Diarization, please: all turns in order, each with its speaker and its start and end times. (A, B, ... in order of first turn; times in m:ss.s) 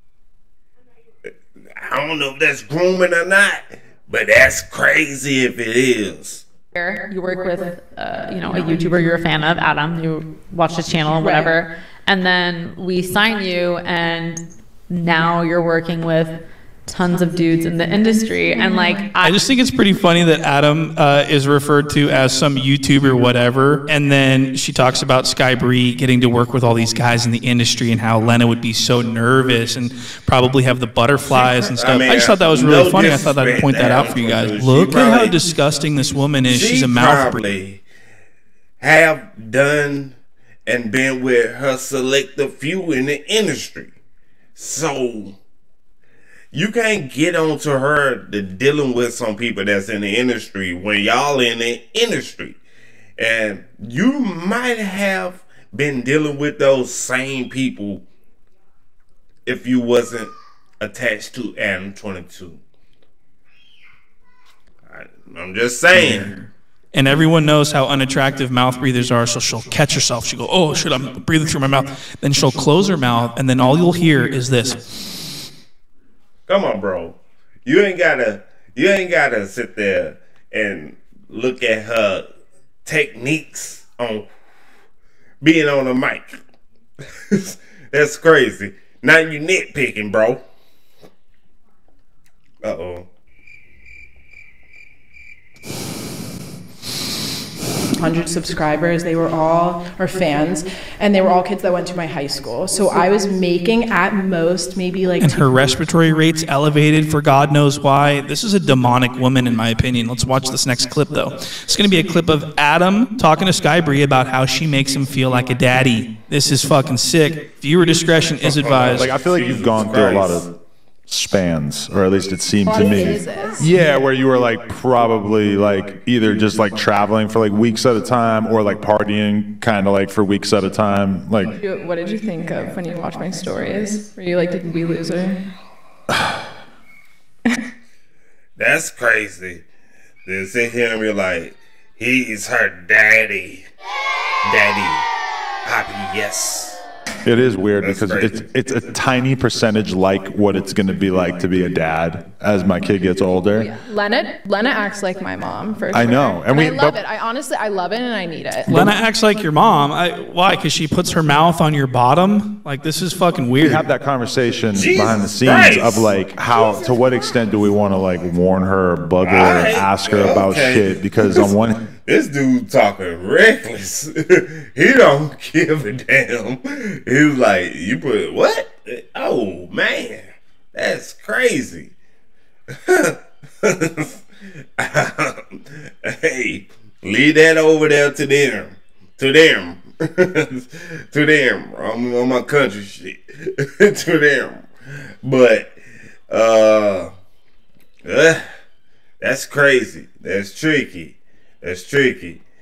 0:01.7-0:06.4 A
0:06.7-0:19.4 B
0:11.2-0:11.5 C
0:19.2-0:37.4 D
0:31.2-0:35.4 A
0:36.4-0:37.8 A
0:38.8-0:43.9 A
0:44.5-0:45.4 A
0:46.5-0:52.6 A
0:53.2-0:58.0 A
0:59.4-1:02.6 A
1:04.9-1:06.5 A
1:06.9-1:14.8 D
1:16.5-1:22.3 A
1:22.8-1:24.3 A
1:25.4-1:26.4 A
1:27.3-1:30.4 A
1:32.6-1:33.1 A
1:38.0-1:38.5 E
1:38.0-1:38.4 C
1:39.1-1:40.0 C
1:40.0-1:40.4 E
1:41.3-1:45.4 C
1:43.3-1:44.9 E
1:45.2-1:59.2 D
1:58.4-2:00.4 A
1:58.8-2:00.5 F
2:01.1-2:11.5 F
2:02.6-2:03.7 E
2:11.5-2:15.4 E
2:18.6-2:19.6 A
2:20.2-2:23.7 A
2:24.4-2:25.1 A
2:25.6-2:26.8 A
2:27.2-2:33.7 F
2:27.8-2:28.5 A
2:33.6-2:38.9 E
2:35.9-2:37.0 F
2:38.7-2:43.8 D
2:43.6-2:51.8 F
2:44.7-2:46.1 A
2:49.2-3:01.9 A
3:02.7-3:04.2 A
3:04.8-3:14.6 A
3:15.2-3:17.1 A
3:18.0-3:18.5 A
3:19.2-3:22.4 A